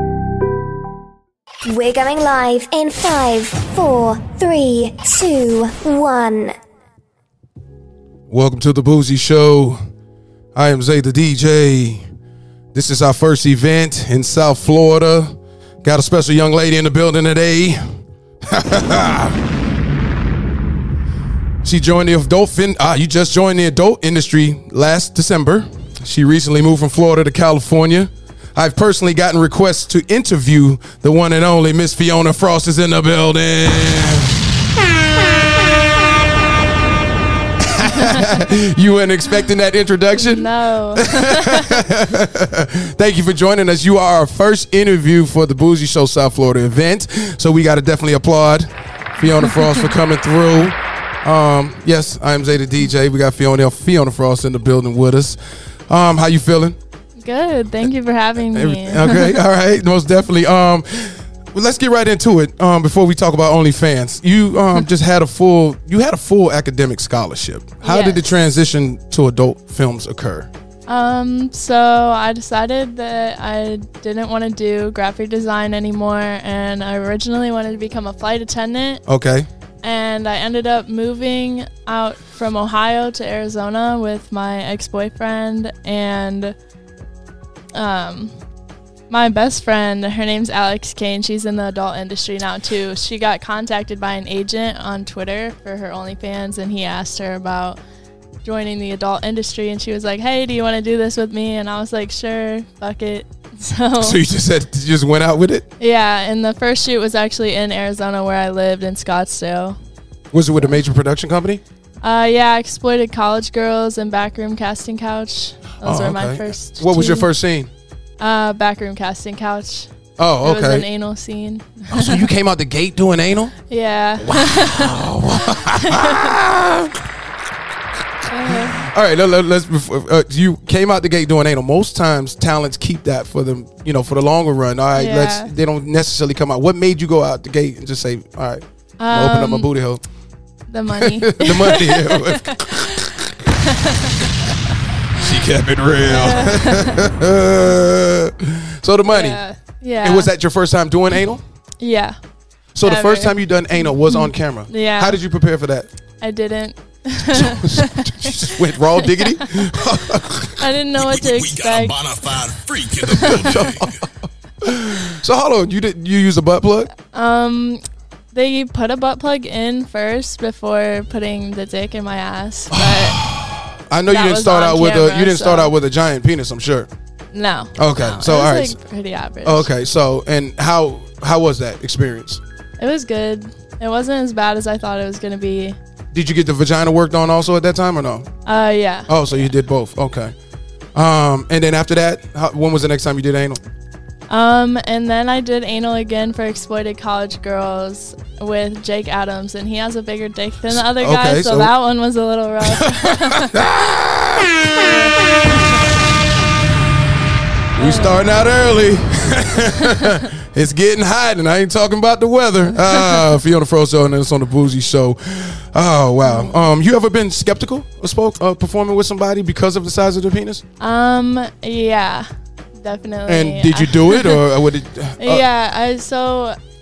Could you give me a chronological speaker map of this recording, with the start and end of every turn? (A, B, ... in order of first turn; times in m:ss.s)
0:01.6-0:06.6 A
0:08.3-0:09.8 B
0:10.5-0:12.0 B
0:12.7-0:17.8 B
0:18.4-0:19.4 B
0:21.6-0:35.6 B
0:37.6-0:56.8 B
0:40.2-0:41.9 C
0:49.4-0:49.7 C
0:57.2-0:59.4 C
0:58.4-1:10.5 B
1:07.8-1:08.3 C
1:10.9-1:19.0 C
1:19.0-1:19.5 B
1:19.8-1:26.6 C
1:27.7-1:28.3 C
1:29.1-1:37.8 C
1:38.4-1:44.2 C
1:44.0-1:45.7 B
1:45.8-1:49.8 C
1:50.3-1:51.6 B
1:52.0-1:57.3 C
1:55.8-1:57.7 B
1:58.2-1:59.9 C
2:00.2-2:00.9 B
2:00.4-2:02.2 C
2:01.9-2:03.5 B
2:03.7-2:06.3 C
2:04.2-2:07.0 B
2:08.3-2:08.8 C
2:08.5-2:20.0 B
2:14.9-2:15.5 C
2:19.0-2:19.7 C
2:20.7-2:25.2 C
2:20.9-2:23.3 B
2:25.1-2:29.4 B
2:26.0-2:27.1 C
2:29.1-2:30.3 C
2:30.0-2:31.4 B
2:31.8-2:32.2 C
2:32.7-2:35.9 B
2:32.8-2:35.2 C
2:36.2-2:42.0 C
2:37.3-2:40.6 B
2:41.0-2:43.9 D
2:43.1-2:43.8 C
2:43.2-2:44.1 B
2:44.6-2:46.9 B
2:47.1-2:53.2 C
2:52.7-2:56.9 B
2:54.1-2:55.7 C
2:57.3-2:59.7 C
2:57.8-2:58.8 B
2:59.4-3:02.4 B
3:02.8-3:05.8 C
3:06.1-3:08.3 B
3:08.4-3:09.5 C
3:09.1-3:10.3 B
3:10.9-3:13.6 B
3:14.3-3:23.6 C
3:20.8-3:21.7 B
3:22.6-3:25.6 B
3:24.7-3:25.2 C
3:27.7-3:40.6 B
3:27.8-3:28.2 C
3:32.9-3:33.2 C
3:36.2-3:36.6 C
3:40.8-3:44.4 C
3:43.2-3:45.4 B
3:45.2-3:46.6 C